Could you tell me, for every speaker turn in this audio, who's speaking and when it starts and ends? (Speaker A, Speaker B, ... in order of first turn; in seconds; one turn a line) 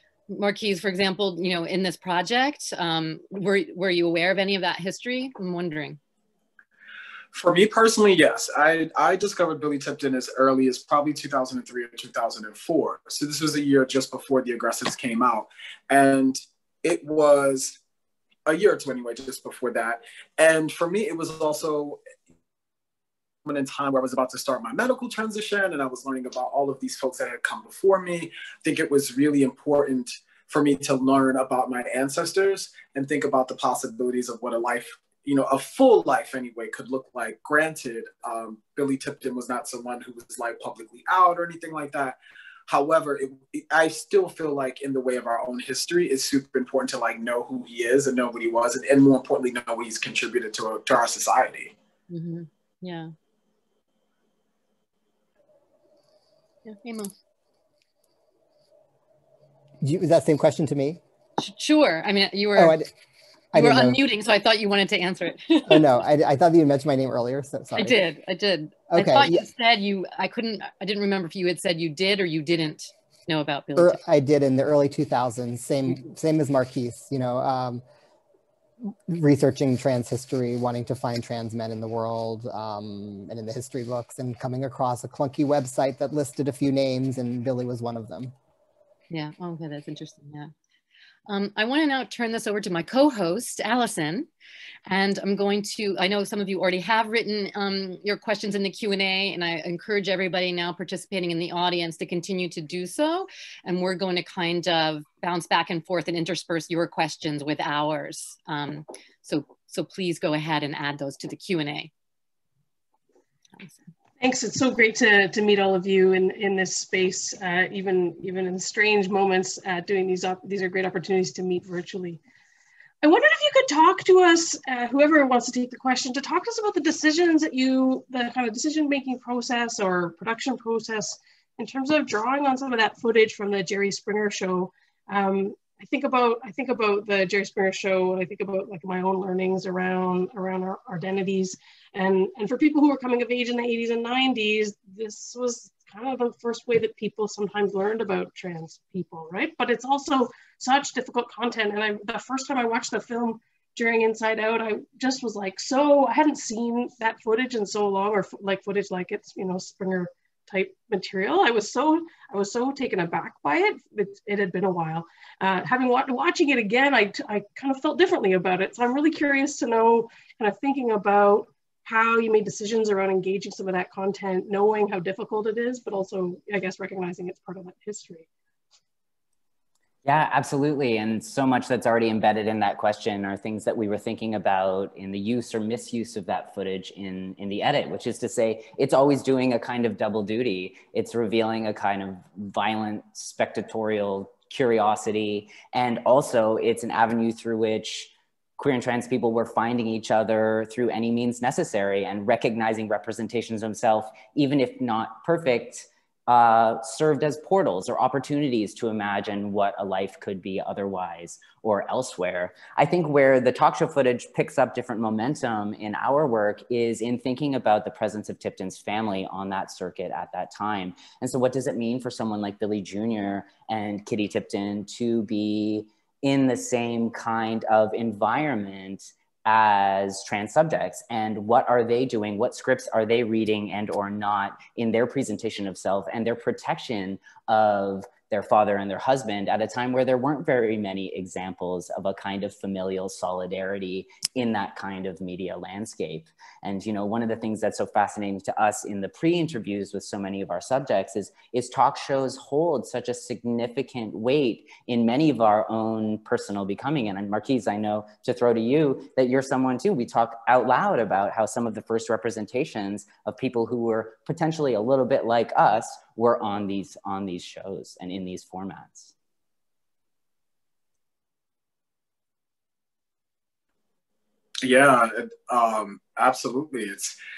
Speaker A: 0.3-6.0
Speaker B: 7.3-17.8
Speaker B: 18.5-22.0
Speaker B: 23.4-51.7
Speaker A: 52.1-53.1
Speaker A: 56.6-57.1
Speaker C: 59.8-61.0
Speaker A: 61.4-62.8
Speaker C: 62.5-62.9
Speaker C: 63.5-64.0
Speaker A: 63.5-65.8
Speaker C: 65.7-68.0
Speaker A: 67.8-74.0
Speaker C: 68.9-69.5
Speaker C: 73.8-77.8
Speaker C: 78.8-88.3
Speaker A: 89.1-90.5
Speaker A: 91.3-94.3
Speaker A: 94.9-111.9
Speaker D: 114.2-122.2
Speaker D: 123.0-178.3
Speaker E: 180.0-269.1
Speaker B: 274.6-277.2